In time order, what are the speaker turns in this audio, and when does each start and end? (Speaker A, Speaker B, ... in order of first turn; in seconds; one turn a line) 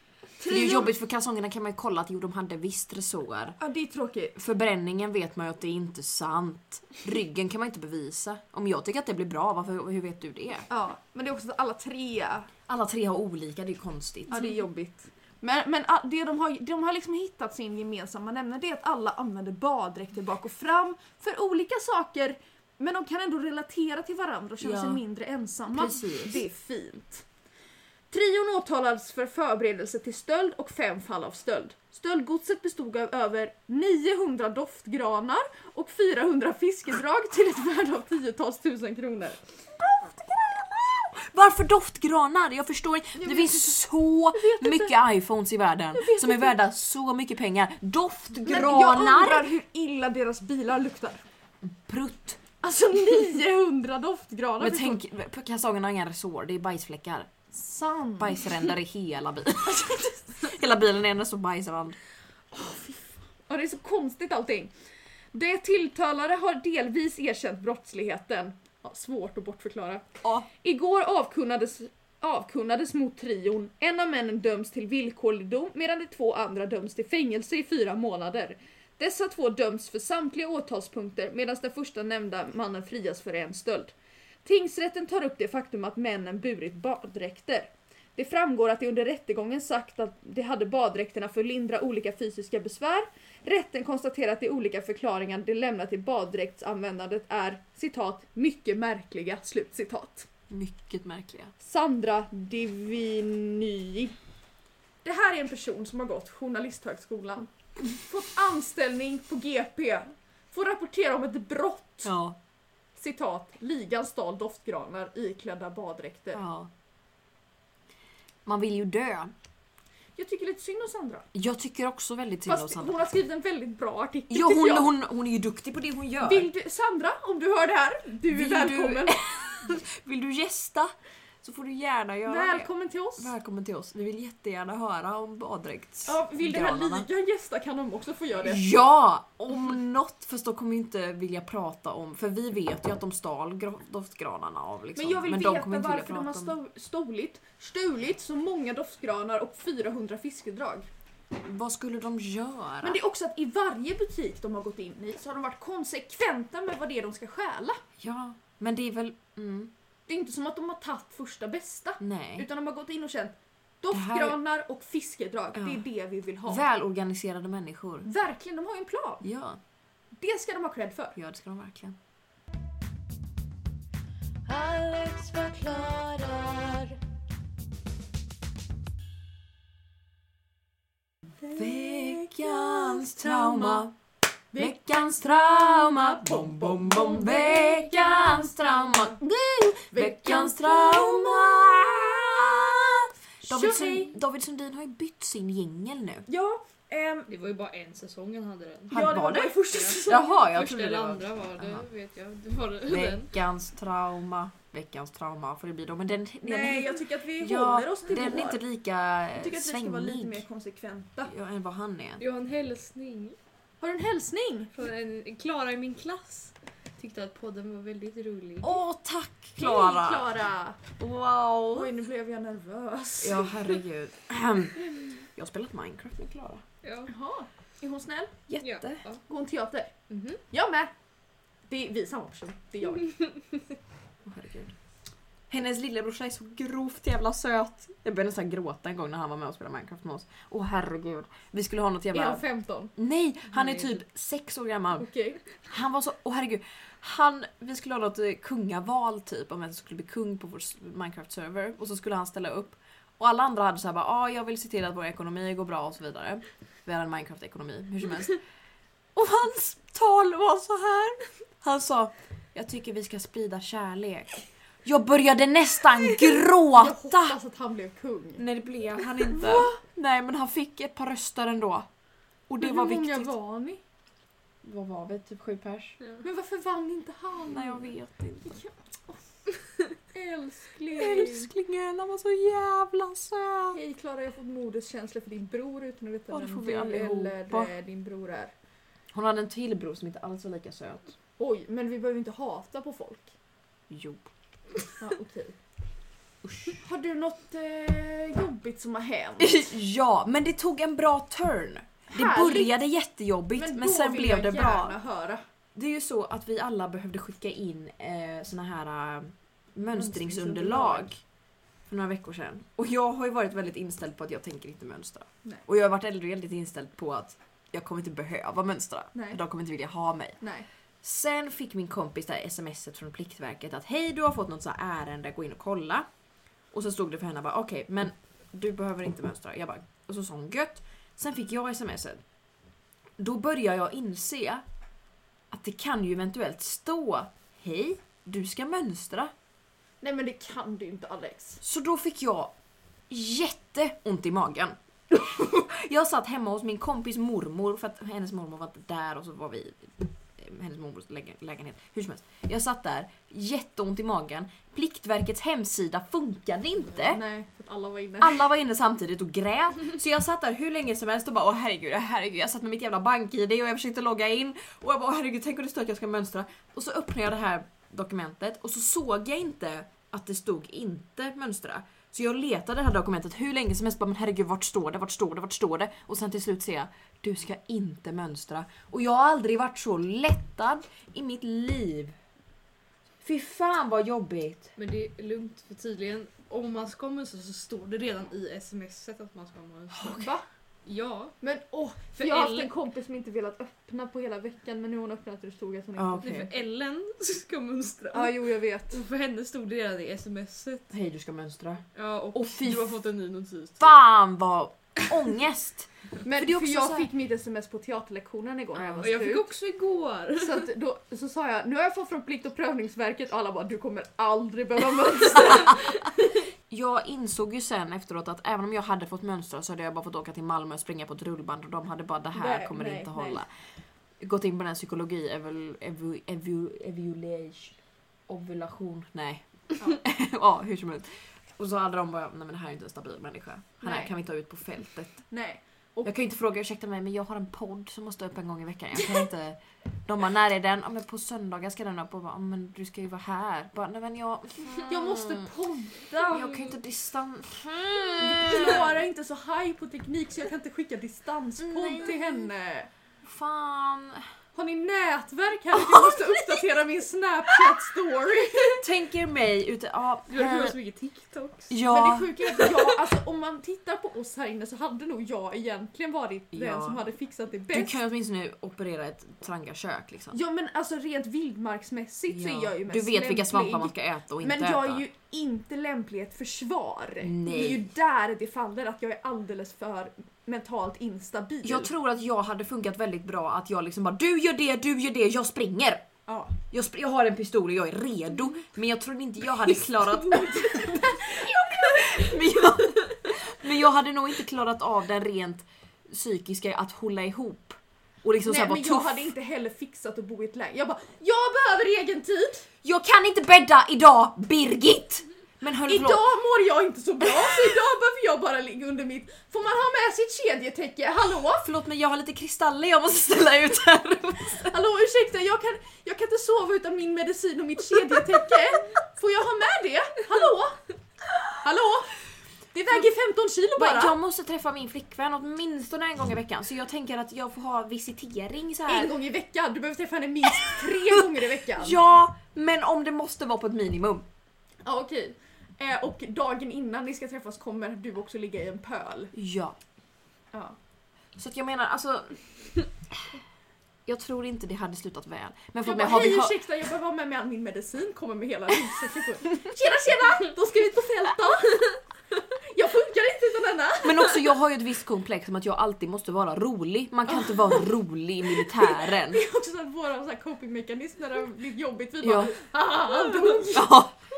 Speaker A: 0.4-0.9
Speaker B: 0.4-3.6
Speaker A: 3.6-4.4
Speaker B: 4.3-10.7
Speaker A: 10.7-12.5
Speaker B: 12.7-14.5
Speaker A: 14.3-27.2
Speaker B: 24.6-25.0
Speaker B: 25.7-26.4
Speaker A: 28.1-39.5
Speaker B: 40.0-49.5
Speaker A: 43.2-43.8
Speaker A: 44.3-45.0
Speaker A: 45.9-46.5
Speaker A: 48.4-51.2
Speaker B: 51.6-52.4
Speaker A: 52.6-55.0
Speaker B: 54.6-57.3
Speaker A: 57.5-58.7
Speaker B: 58.2-62.0
Speaker A: 62.5-64.7
Speaker A: 65.3-83.9
Speaker A: 84.4-100.3
Speaker B: 100.5-101.5
Speaker A: 101.6-104.1
Speaker A: 105.0-112.1
Speaker B: 112.0-112.4
Speaker A: 113.0-116.4
Speaker B: 116.3-116.7
Speaker B: 118.5-119.3
Speaker A: 120.2-121.3
Speaker B: 121.3-122.9
Speaker A: 122.5-124.9
Speaker B: 124.3-126.5
Speaker A: 126.2-129.2
Speaker B: 128.3-137.1
Speaker A: 132.2-133.3
Speaker A: 136.1-138.6
Speaker B: 138.4-146.5
Speaker A: 144.9-150.9
Speaker B: 151.4-153.0
Speaker A: 152.8-157.8
Speaker B: 158.0-159.7
Speaker A: 160.1-166.6
Speaker B: 162.0-162.5
Speaker B: 163.9-164.4
Speaker B: 165.5-165.8
Speaker B: 166.4-168.1
Speaker A: 168.0-169.2
Speaker B: 169.2-169.6
Speaker A: 170.2-171.1
Speaker B: 171.1-172.0
Speaker C: 174.4-177.0
Speaker A: 181.4-183.9
Speaker B: 181.5-183.9
Speaker A: 184.5-191.3
Speaker B: 184.6-189.2
Speaker B: 189.9-196.2
Speaker A: 193.4-194.1
Speaker A: 196.3-197.3
Speaker D: 197.3-199.0
Speaker A: 198.9-200.4
Speaker B: 198.9-201.9
Speaker D: 199.7-203.3
Speaker B: 202.8-210.4
Speaker A: 206.4-208.6
Speaker A: 209.4-211.3
Speaker B: 211.3-212.2
Speaker D: 212.2-213.4
Speaker A: 213.8-214.7
Speaker D: 214.7-218.8
Speaker B: 218.6-220.3
Speaker A: 219.6-220.8
Speaker B: 221.0-221.9
Speaker A: 221.7-223.6
Speaker B: 223.2-226.6
Speaker D: 226.8-227.1
Speaker A: 227.1-228.3
Speaker B: 228.5-229.0
Speaker D: 228.6-229.2
Speaker A: 229.3-229.9
Speaker D: 230.1-230.4
Speaker A: 230.5-230.9
Speaker A: 231.7-233.1
Speaker B: 234.2-234.7
Speaker B: 235.5-242.4
Speaker A: 242.1-242.9
Speaker B: 242.9-245.1
Speaker A: 245.0-245.4
Speaker B: 245.6-258.4
Speaker B: 259.1-267.4
Speaker A: 266.7-268.4
Speaker B: 268.4-271.9
Speaker A: 269.3-269.8
Speaker B: 272.5-273.3
Speaker A: 272.6-273.8
Speaker B: 274.6-276.0
Speaker A: 276.2-277.9
Speaker B: 277.5-278.6
Speaker A: 278.4-279.2
Speaker A: 280.1-281.5
Speaker B: 281.0-283.8
Speaker A: 283.7-288.5
Speaker B: 286.3-287.7
Speaker B: 289.1-291.1
Speaker A: 291.4-293.3
Speaker B: 293.9-294.3
Speaker A: 295.0-295.6
Speaker B: 296.4-296.8
Speaker A: 296.8-299.6
Speaker B: 299.4-305.0
Speaker A: 302.1-302.7
Speaker A: 303.5-305.4
Speaker B: 305.7-311.2
Speaker A: 309.9-311.1
Speaker B: 311.9-320.4
Speaker A: 319.1-319.4
Speaker A: 320.4-320.7
Speaker B: 321.0-326.1
Speaker B: 326.7-332.2
Speaker B: 333.2-334.6
Speaker B: 335.5-339.3
Speaker A: 340.0-341.6
Speaker B: 341.6-342.5
Speaker B: 343.1-357.2
Speaker A: 357.0-358.4
Speaker B: 358.2-382.1
Speaker B: 383.2-384.7
Speaker D: 384.8-390.2
Speaker B: 389.9-390.3
Speaker A: 390.1-390.4
Speaker D: 390.9-391.3
Speaker A: 391.4-396.4
Speaker D: 392.2-392.7
Speaker B: 395.9-396.5
Speaker D: 396.2-400.9
Speaker A: 398.1-399.0
Speaker B: 400.9-402.9
Speaker D: 401.9-403.9
Speaker B: 403.8-407.1
Speaker A: 406.2-409.5
Speaker D: 409.0-410.7
Speaker A: 410.4-416.1
Speaker B: 415.4-416.1
Speaker B: 416.7-423.5
Speaker A: 422.4-423.4
Speaker B: 424.2-427.8
Speaker B: 428.3-435.2
Speaker A: 433.8-434.1
Speaker A: 435.3-436.1
Speaker B: 436.0-445.5
Speaker A: 444.9-446.6
Speaker B: 446.3-448.9
Speaker A: 448.2-452.9
Speaker B: 451.6-452.5
Speaker B: 453.2-454.3
Speaker A: 454.5-458.8
Speaker B: 455.7-456.6
Speaker B: 458.7-460.8
Speaker D: 460.3-461.7
Speaker B: 461.7-462.9
Speaker A: 461.9-468.0
Speaker B: 466.5-467.0
Speaker B: 467.7-470.4
Speaker A: 470.3-481.9
Speaker B: 472.3-475.0
Speaker B: 477.2-477.9
Speaker B: 481.6-486.1
Speaker A: 486.3-486.5
Speaker B: 486.7-499.3
Speaker A: 490.3-491.5
Speaker A: 498.4-502.6
Speaker B: 502.8-506.2
Speaker A: 505.9-511.7
Speaker B: 507.2-507.7
Speaker B: 511.6-514.7
Speaker A: 514.6-520.8
Speaker A: 521.6-522.2
Speaker A: 522.7-524.1
Speaker B: 523.8-529.1
Speaker A: 528.9-532.0
Speaker B: 530.5-534.2
Speaker A: 534.8-539.3
Speaker B: 539.3-539.8
Speaker B: 541.4-542.4
Speaker B: 544.0-546.5
Speaker A: 545.8-552.0
Speaker A: 552.6-554.4
Speaker B: 554.0-559.4
Speaker A: 557.3-557.9
Speaker A: 558.6-564.0
Speaker B: 562.2-562.5
Speaker B: 563.4-564.2